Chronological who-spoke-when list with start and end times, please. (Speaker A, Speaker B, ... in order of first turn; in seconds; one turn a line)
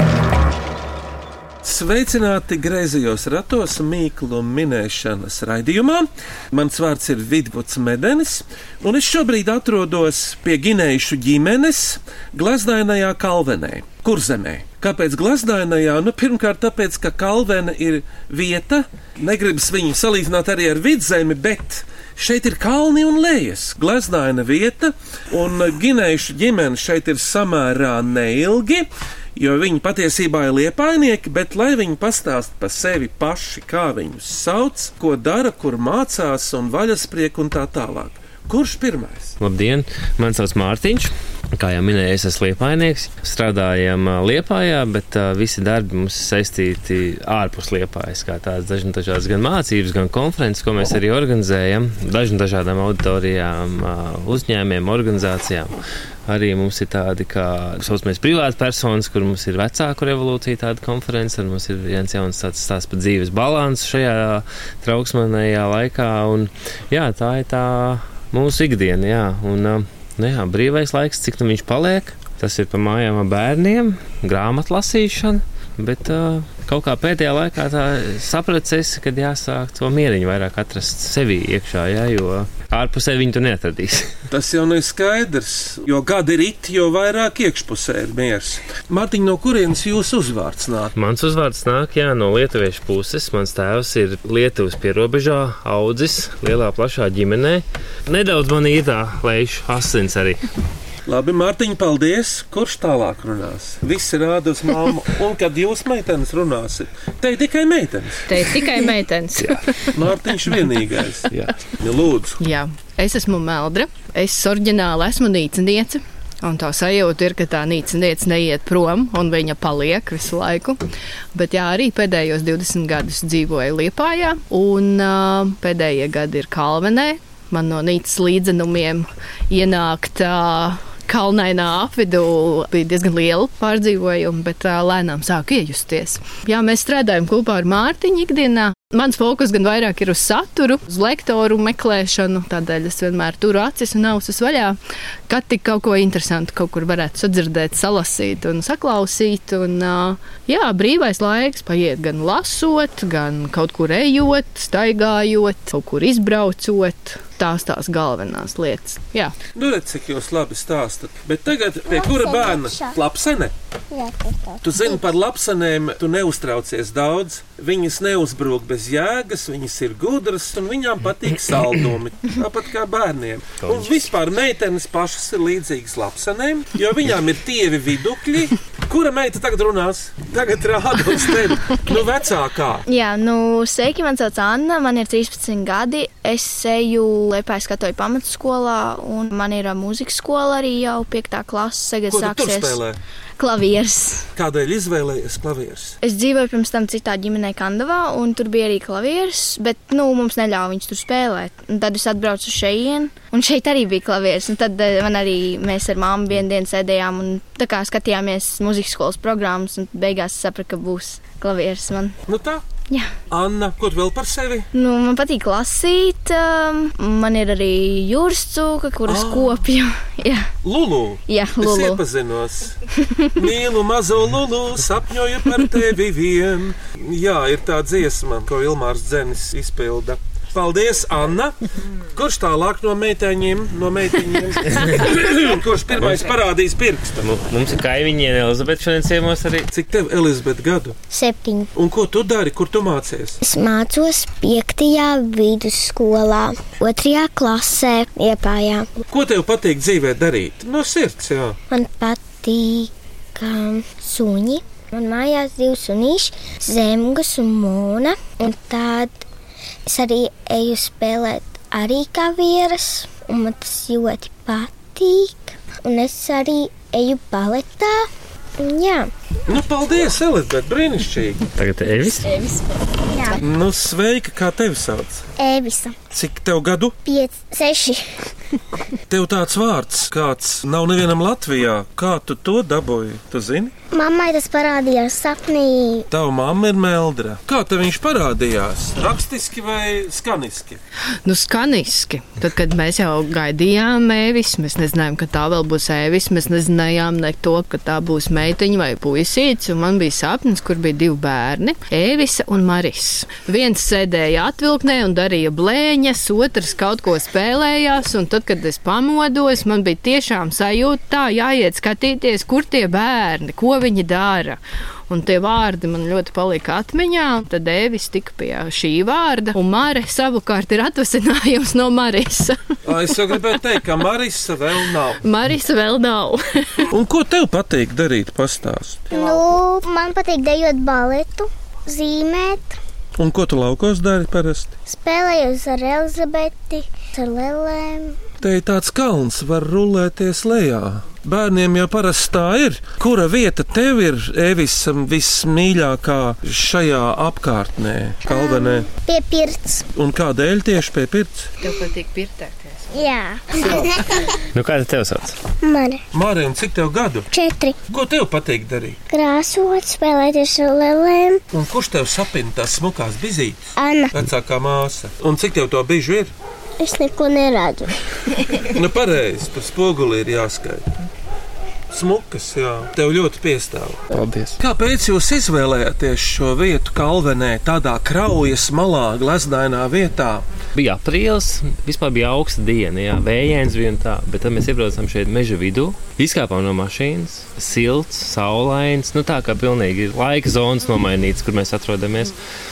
Speaker A: 1.6-39.4
Speaker B: 39.4-55.8
Speaker B: 56.3-84.1
Speaker A: 84.3-90.9
Speaker B: 90.9-100.4
Speaker A: 101.0-108.4
Speaker C: 108.3-109.9
Speaker A: 109.9-112.4
Speaker C: 112.4-120.8
Speaker C: 121.3-144.8
Speaker C: 145.3-159.3
Speaker A: 159.5-163.5
Speaker D: 161.8-163.0
Speaker D: 163.9-165.1
Speaker A: 164.6-182.8
Speaker B: 173.6-173.9
Speaker E: 182.9-192.8
Speaker A: 192.1-193.0
Speaker E: 193.4-194.3
Speaker A: 194.3-196.0
Speaker E: 196.0-212.2
Speaker A: 212.3-212.6
Speaker A: 213.3-214.7
Speaker E: 214.7-220.5
Speaker A: 219.1-219.6
Speaker A: 220.6-222.8
Speaker E: 221.3-222.0
Speaker E: 223.0-223.3
Speaker A: 223.3-231.6
Speaker A: 232.1-237.2
Speaker B: 237.2-239.7
Speaker A: 239.7-241.0
Speaker D: 241.1-241.7
Speaker A: 241.7-243.4
Speaker D: 243.4-248.9
Speaker A: 249.1-251.6
Speaker D: 251.7-259.2
Speaker D: 259.9-268.1
Speaker D: 268.6-269.1
Speaker A: 269.5-271.4
Speaker B: 271.6-272.3
Speaker E: 272.2-273.0
Speaker D: 273.1-273.4
Speaker A: 273.4-275.2
Speaker D: 275.4-275.9
Speaker A: 276.1-276.9
Speaker D: 277.0-278.2
Speaker A: 279.1-283.7
Speaker D: 283.9-286.1
Speaker A: 286.1-290.8
Speaker C: 291.2-322.6
Speaker A: 322.8-325.2
Speaker C: 325.2-326.7
Speaker A: 326.9-329.1
Speaker D: 329.1-332.8
Speaker A: 333.2-334.7
Speaker D: 334.9-338.2
Speaker A: 338.4-348.9
Speaker D: 348.2-349.8
Speaker A: 349.9-351.5
Speaker C: 351.6-353.0
Speaker D: 352.9-354.0
Speaker B: 354.5-355.4
Speaker D: 355.6-356.0
Speaker A: 356.1-357.3
Speaker D: 357.3-357.8
Speaker A: 357.9-359.0
Speaker D: 359.1-361.4
Speaker A: 361.5-363.6
Speaker D: 363.8-364.3
Speaker A: 364.1-366.3
Speaker D: 366.8-367.9
Speaker A: 368.6-370.9
Speaker A: 371.9-380.4
Speaker B: 374.1-374.5
Speaker B: 380.8-392.4